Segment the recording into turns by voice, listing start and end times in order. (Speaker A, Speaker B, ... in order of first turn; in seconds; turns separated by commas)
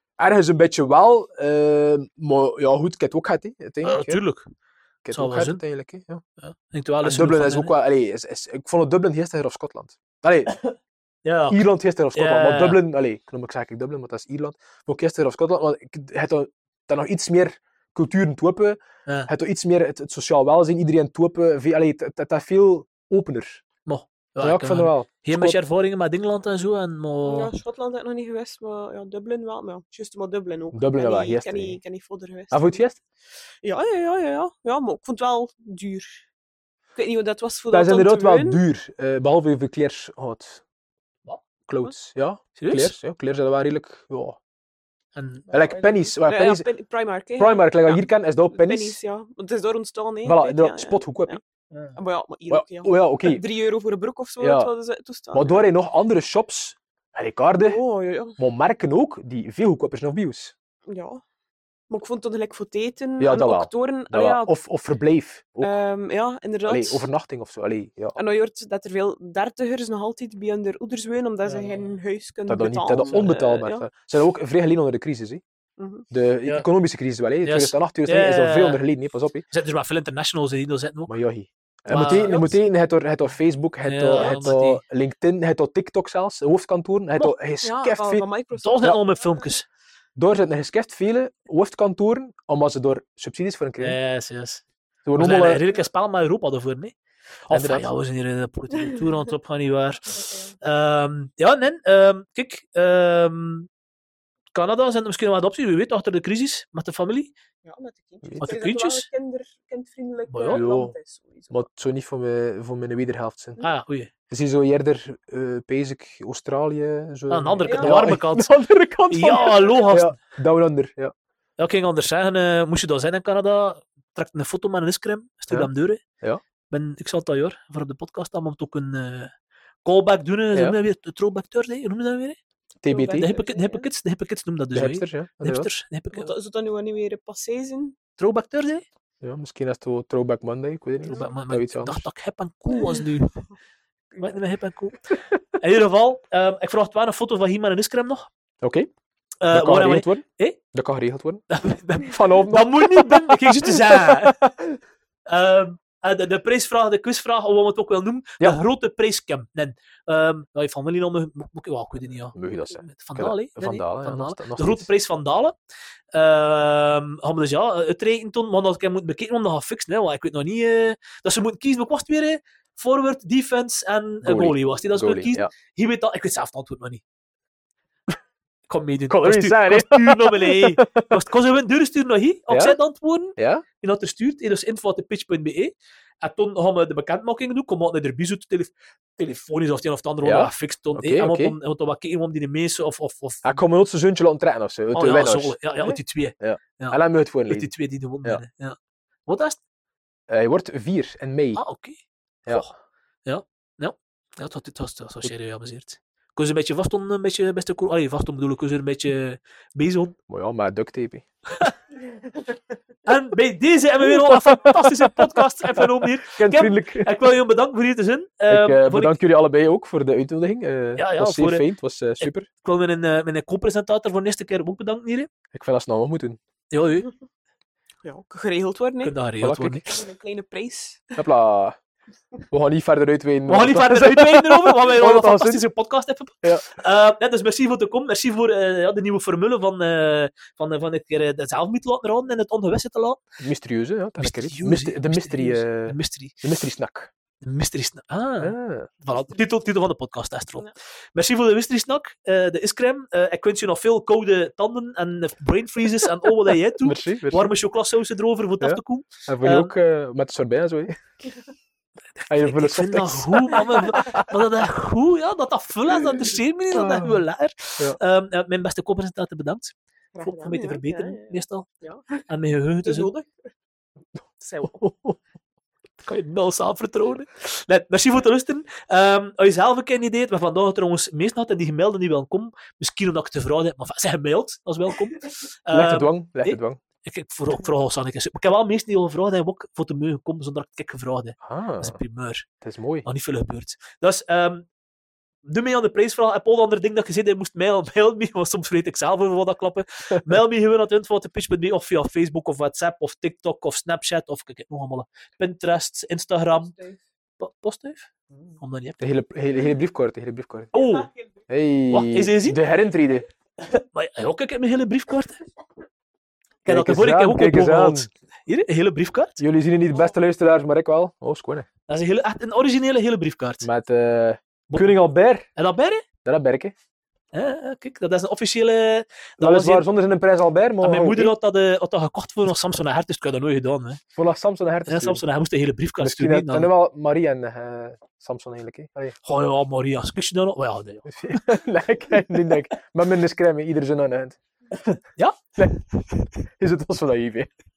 Speaker A: 0.2-4.2, Speaker B: 3.8-4.5, Speaker A: 5.0-6.2, Speaker B: 5.1-5.6, Speaker B: 6.4-7.8, Speaker A: 7.0-10.6, Speaker B: 10.6-11.6, Speaker A: 11.5-23.6, Speaker B: 12.1-12.8, Speaker B: 23.9-27.5, Speaker A: 24.4-25.6, Speaker C: 27.2-32.8, Speaker A: 30.7-31.8, Speaker A: 32.5-33.0, Speaker C: 33.6-36.3, Speaker C: 37.0-38.6, Speaker A: 37.7-40.6, Speaker A: 41.7-44.4, Speaker B: 42.6-43.0, Speaker B: 45.1-45.5, Speaker C: 45.5-51.4, Speaker A: 45.5-46.7, Speaker A: 47.4-49.0, Speaker A: 50.2-51.4, Speaker C: 52.0-55.6, Speaker A: 52.5-53.4, Speaker A: 54.4-54.7, Speaker A: 55.3-57.8, Speaker C: 57.6-58.4, Speaker A: 58.4-60.5, Speaker C: 60.9-61.2, Speaker C: 61.9-64.5, Speaker A: 63.2-65.7, Speaker C: 65.6-67.1, Speaker A: 66.7-68.2, Speaker C: 68.2-73.9, Speaker B: 71.5-72.0, Speaker A: 72.5-75.4, Speaker B: 73.1-73.6, Speaker C: 75.8-76.1, Speaker A: 76.1-79.5, Speaker B: 77.5-78.8, Speaker B: 79.5-81.1, Speaker A: 81.1-88.2, Speaker B: 81.9-82.6, Speaker B: 83.8-84.8, Speaker C: 87.6-89.4, Speaker B: 88.6-89.7, Speaker A: 90.2-94.0, Speaker B: 93.8-94.6, Speaker A: 95.0-95.7, Speaker B: 95.2-97.0, Speaker A: 97.5-97.9, Speaker B: 97.5-103.7, Speaker C: 100.1-100.6, Speaker B: 104.5-107.3, Speaker C: 107.7-111.7, Speaker A: 108.2-108.5, Speaker B: 108.4-109.1, Speaker B: 110.3-110.7, Speaker A: 110.5-111.0, Speaker A: 111.5-113.6, Speaker B: 113.6-114.1, Speaker A: 114.3-121.1, Speaker B: 117.3-118.5, Speaker C: 117.7-118.0, Speaker B: 119.1-120.2, Speaker B: 121.6-126.0, Speaker B: 126.7-129.3, Speaker B: 129.8-132.4, Speaker A: 132.8-133.3, Speaker C: 132.9-133.9, Speaker B: 133.0-136.3, Speaker A: 134.7-135.7, Speaker C: 136.1-138.0, Speaker B: 138.2-138.8, Speaker A: 139.2-142.1, Speaker B: 141.1-143.4, Speaker C: 142.7-143.1, Speaker B: 144.2-148.3, Speaker A: 148.6-148.9, Speaker B: 149.4-150.6, Speaker A: 149.5-151.4, Speaker B: 151.5-154.5, Speaker A: 152.0-154.8, Speaker B: 155.3-165.6, Speaker A: 162.3-164.9, Speaker B: 166.1-177.0, Speaker A: 174.2-175.5, Speaker B: 178.7-193.6, Speaker A: 179.1-181.2, Speaker A: 182.5-182.8, Speaker A: 183.4-183.7, Speaker A: 190.2-191.6, Speaker A: 193.4-197.7, Speaker B: 194.9-199.6, Speaker A: 200.3-201.6, Speaker B: 201.6-202.7, Speaker B: 203.3-210.2, Speaker A: 210.3-211.2, Speaker B: 213.1-219.2, Speaker A: 214.0-217.1, Speaker A: 218.5-222.5, Speaker B: 221.0-221.7, Speaker B: 222.2-225.3, Speaker A: 225.5-226.4, Speaker B: 226.7-227.1, Speaker C: 228.0-229.2, Speaker B: 229.0-229.8, Speaker A: 229.4-230.0, Speaker C: 229.9-231.2, Speaker A: 231.2-231.8, Speaker A: 232.5-235.6, Speaker B: 233.5-243.2, Speaker A: 243.4-247.1, Speaker B: 244.2-246.4, Speaker B: 247.4-259.7, Speaker A: 248.4-248.9, Speaker A: 256.8-257.5, Speaker A: 258.6-261.0, Speaker A: 262.3-264.3, Speaker B: 262.4-271.7, Speaker A: 266.7-267.2, Speaker C: 270.1-272.2, Speaker B: 272.3-273.1, Speaker C: 272.8-273.3, Speaker C: 274.4-274.9, Speaker A: 274.8-275.2, Speaker B: 276.0-292.5, Speaker A: 285.7-286.8, Speaker A: 291.4-292.0, Speaker A: 292.6-293.1, Speaker B: 293.1-294.7, Speaker B: 295.5-306.7, Speaker C: 306.5-307.0, Speaker B: 307.4-308.1, Speaker B: 308.6-309.0, Speaker A: 309.0-310.7, Speaker B: 310.7-311.1, Speaker C: 310.8-311.4, Speaker A: 311.5-313.3, Speaker B: 311.9-312.6, Speaker B: 313.9-315.5, Speaker A: 316.6-318.1, Speaker B: 316.6-319.4, Speaker A: 319.4-321.7, Speaker B: 321.9-323.7, Speaker A: 323.6-325.5, Speaker B: 324.7-325.0, Speaker B: 325.6-326.1, Speaker A: 326.2-326.7, Speaker B: 327.3-329.9, Speaker A: 329.4-331.3, Speaker B: 330.8-334.0, Speaker A: 334.1-335.2, Speaker B: 334.9-336.7, Speaker A: 336.0-339.1, Speaker B: 339.2-341.4, Speaker A: 341.1-345.0, Speaker B: 345.2-345.5, Speaker A: 345.6-347.5